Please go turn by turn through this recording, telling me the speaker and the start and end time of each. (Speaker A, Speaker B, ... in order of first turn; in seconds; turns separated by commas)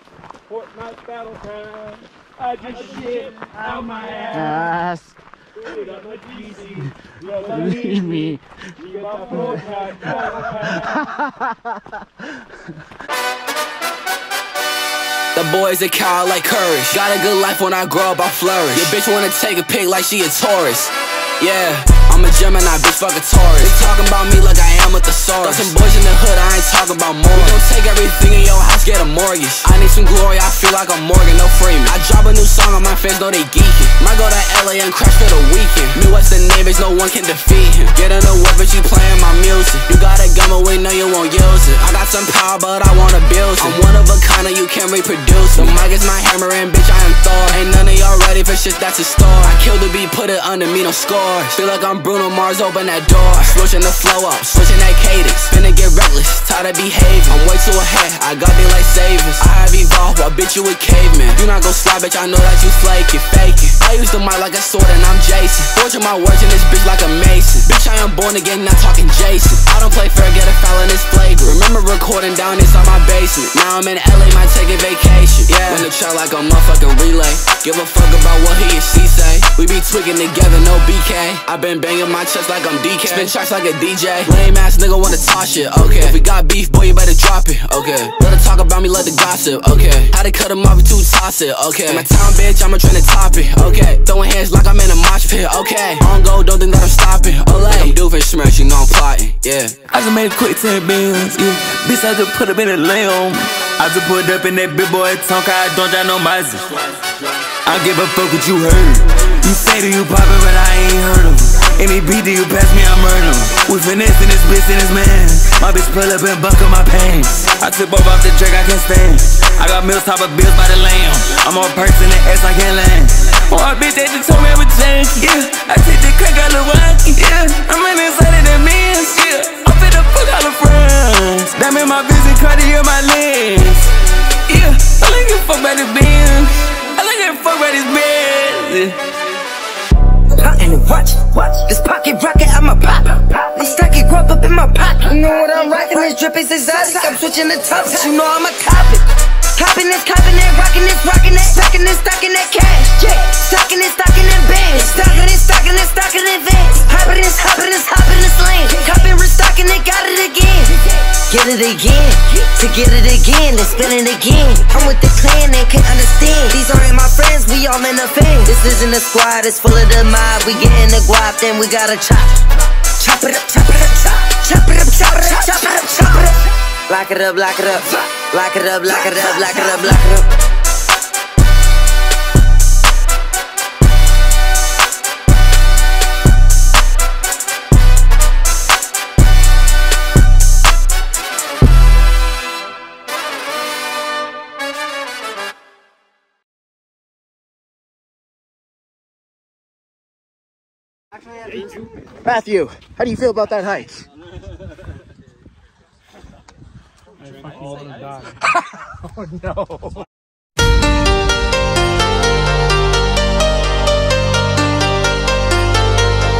Speaker A: 0.5-4.7, Speaker B: 3.8-5.2, Speaker A: 5.6-10.9, Speaker B: 7.5-8.4, Speaker B: 10.7-12.0, Speaker C: 15.3-99.8, Speaker D: 99.9-106.9, Speaker D: 107.7-133.9, Speaker D: 134.5-139.0, Speaker E: 140.4-172.4, Speaker E: 173.0-180.3, Speaker B: 202.2-204.0, Speaker A: 207.2-208.4